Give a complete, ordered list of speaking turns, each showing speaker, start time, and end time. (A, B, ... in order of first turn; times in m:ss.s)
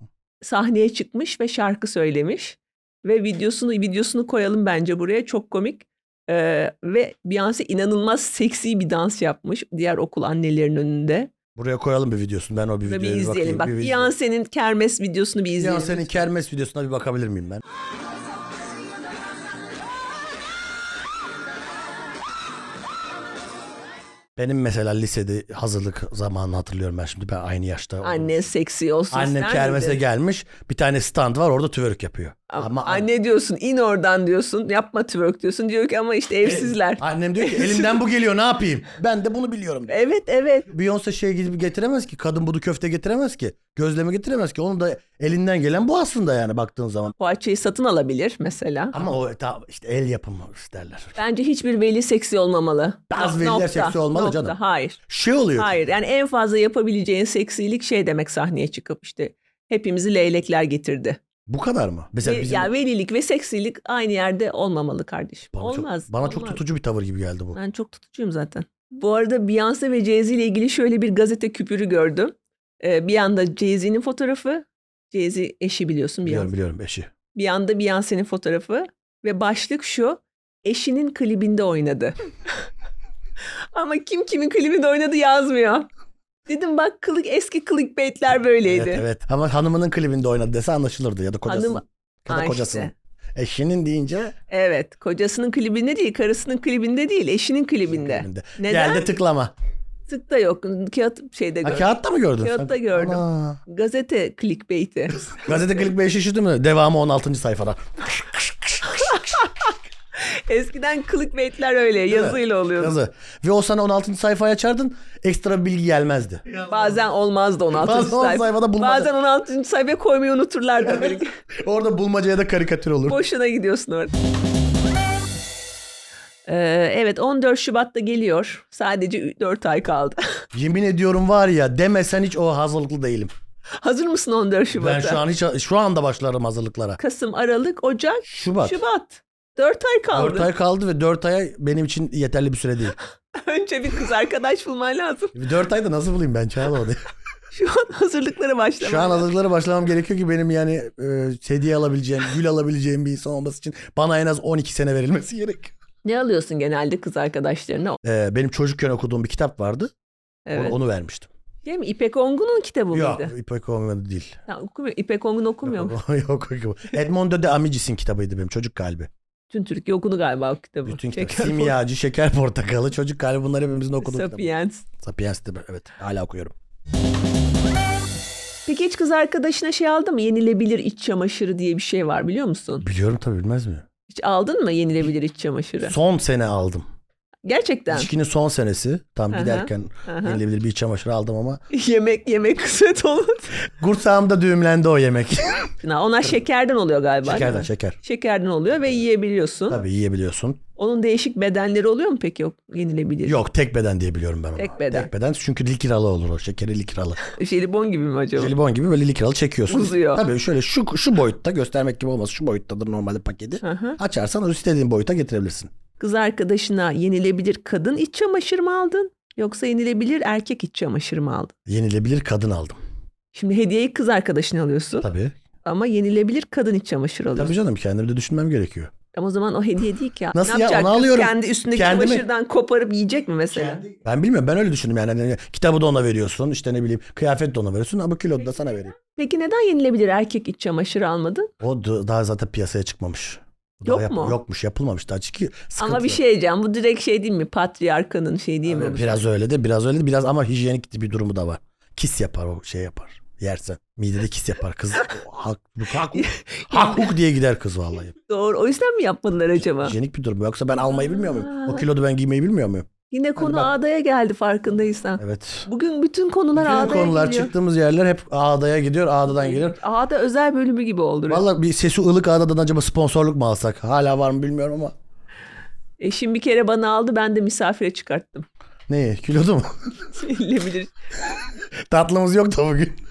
0:00.4-0:11.3 A
0:11.6-0:14.1 B
0:12.9-0:16.1 A
0:15.6-0:17.6 B
0:24.4-0:28.4 B
0:28.0-0:30.0 A
0:29.1-0:33.1 B
0:32.5-0:38.0 A
0:36.4-0:40.0 B
0:39.9-0:40.7 A
0:40.7-0:47.1 B
0:47.2-0:49.0 A
0:48.9-0:51.2 B
0:51.2-0:55.0 A
0:53.1-0:54.6 B
0:55.1-0:55.8 B
0:55.6-1:01.2 A
1:01.5-1:02.7 B
1:02.2-1:06.6 A
1:05.5-1:07.6 B
1:07.6-1:16.5 A
1:16.2-1:17.1 B
1:17.3-1:22.5 A
1:23.4-1:25.9 A
1:26.5-1:29.0 A
1:28.6-1:34.4 B
1:31.5-1:32.9 A
1:34.5-1:39.1 A
1:37.9-1:39.5 B
1:40.1-1:41.9 A
1:41.6-1:43.6 B
1:42.4-1:45.5 A
1:45.3-1:49.5 B
1:48.9-1:53.0 A
1:52.1-1:56.6 B
1:56.6-2:01.4 A
1:57.7-1:59.1 B
2:00.8-2:03.2 B
2:03.1-2:04.1 A
2:06.5-2:10.4 A
2:10.5-2:13.3 B
2:13.8-2:15.2 A
2:14.7-2:17.0 B
2:17.0-2:20.5 A
2:18.3-2:18.8 B
2:20.1-2:23.0 B
2:23.3-2:25.4 A
2:25.3-2:27.0 B
2:27.5-2:29.3 A
2:28.8-2:35.8 B
2:36.0-2:38.0 A
2:38.0-2:39.9 B
2:40.5-2:40.8 A
2:40.5-2:41.3 B
2:41.6-2:43.3 A
2:42.9-2:44.4 B
2:44.5-2:46.0 A
2:45.6-2:49.1 B
2:49.5-2:51.8 A
2:50.9-2:54.5 B
2:54.0-2:54.9 A
2:55.0-2:56.5 B
2:58.7-3:02.8 A
3:02.8-3:03.9 B
3:04.1-3:05.9 A
3:05.8-3:06.9 B
3:07.4-3:08.1 A
3:07.9-3:11.6 B
3:09.3-3:10.4 A
3:11.7-3:13.5 A
3:13.7-3:15.7 B
3:15.8-3:19.8 A
3:17.2-3:18.0 B
3:19.7-3:20.6 B
3:20.8-3:23.4 A
3:23.2-3:27.2 B
3:24.6-3:25.1 A
3:27.2-3:28.6 A
3:28.4-3:35.7 B
3:29.7-3:30.2 A
3:33.6-3:34.0 A
3:36.0-3:41.5 A
3:41.7-3:42.8 B
3:43.3-3:45.1 A
3:45.0-3:45.4 B
3:45.6-3:47.5 A
3:47.4-3:48.9 B
3:49.1-3:53.8 A
3:50.3-3:52.2 B
3:53.5-3:59.0 B
3:59.0-4:01.5 A
4:01.6-4:06.2 B
4:03.8-4:04.4 A
4:05.8-4:09.2 A
4:08.7-4:18.2 B
4:16.1-4:17.1 A
4:18.3-4:20.0 A
4:19.8-4:23.7 B
4:20.9-4:21.8 A
4:23.1-4:27.5 A
4:25.2-4:25.7 B
4:26.5-4:29.8 B
4:29.3-4:31.4 A
4:31.3-4:34.9 B
4:36.0-4:38.5 A
4:38.9-4:39.9 B
4:40.1-4:40.9 A
4:41.9-4:43.0 B